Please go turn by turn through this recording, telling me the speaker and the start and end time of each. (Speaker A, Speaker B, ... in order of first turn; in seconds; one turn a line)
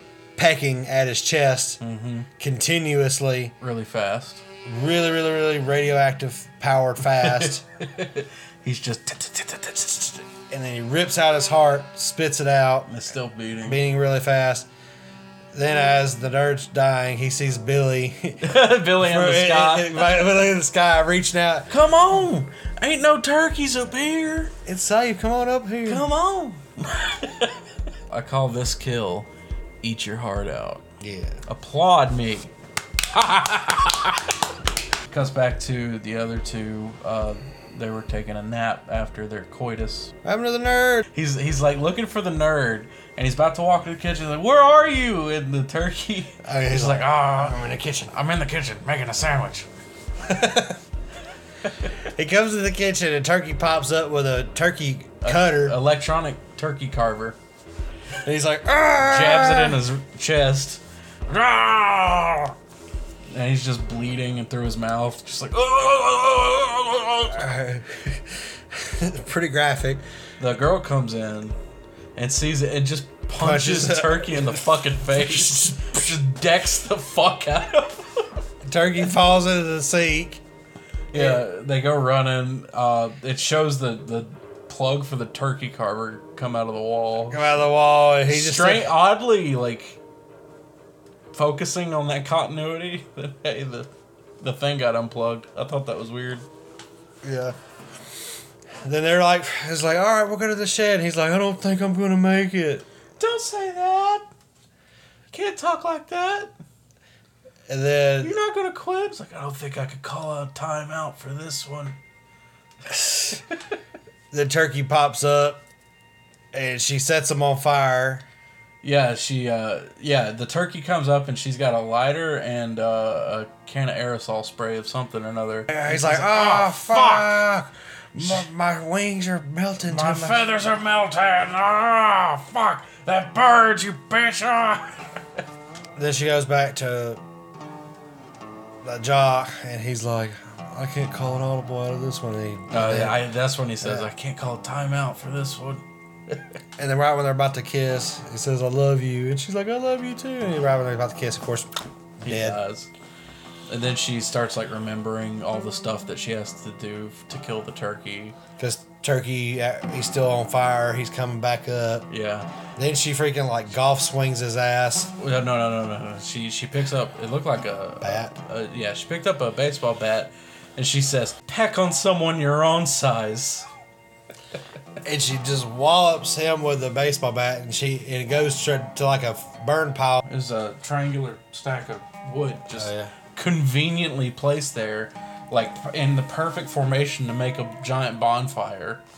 Speaker A: 0.4-1.8
Speaker B: 1.8-2.3
Speaker A: 2.4-3.5
Speaker B: 3.6-4.4
Speaker A: 4.6-7.6
Speaker B: 7.1-10.3
Speaker A: 10.5-12.9
Speaker B: 12.9-13.8
Speaker A: 13.6-14.7
Speaker A: 15.5-21.7
Speaker B: 18.4-20.2
Speaker B: 21.7-24.5
Speaker A: 24.6-26.1
Speaker B: 25.8-29.3
Speaker B: 29.8-30.8
Speaker A: 31.0-31.4
Speaker B: 31.5-32.5
Speaker B: 33.1-34.5
Speaker B: 35.1-40.1
Speaker A: 40.2-41.0
Speaker B: 41.1-47.6
Speaker A: 46.4-48.1
Speaker B: 48.1-49.7
Speaker A: 50.2-50.8
Speaker A: 52.0-55.8
Speaker B: 55.2-57.4
Speaker A: 58.2-59.8
Speaker B: 59.0-62.5
Speaker B: 63.3-67.5
Speaker A: 67.3-70.0
Speaker B: 70.4-71.6
Speaker B: 72.2-78.3
Speaker A: 73.4-74.6
Speaker A: 78.6-80.4
Speaker B: 81.1-87.6
Speaker A: 81.1-81.4
Speaker A: 87.3-88.9
Speaker B: 88.2-90.0
Speaker B: 91.3-93.9
Speaker B: 94.4-96.5
Speaker A: 97.2-97.5
Speaker A: 98.8-102.8
Speaker B: 103.2-104.3
Speaker B: 105.3-106.5
Speaker A: 107.7-108.3
Speaker B: 108.2-112.0
Speaker A: 114.3-115.6
Speaker A: 116.5-118.2
Speaker B: 118.8-127.4
Speaker A: 125.7-130.4
Speaker B: 128.2-128.4
Speaker B: 129.9-135.2
Speaker A: 135.9-137.2
Speaker A: 138.8-143.2
Speaker B: 142.7-146.5
Speaker A: 143.8-144.1
Speaker A: 146.8-152.6
Speaker B: 152.2-152.9
Speaker B: 153.7-158.3
Speaker A: 158.6-162.1
Speaker B: 162.1-162.5
Speaker A: 162.8-165.1
Speaker B: 165.2-173.7
Speaker A: 168.0-168.3
Speaker A: 175.0-180.2
Speaker B: 180.2-189.0
Speaker A: 182.7-183.1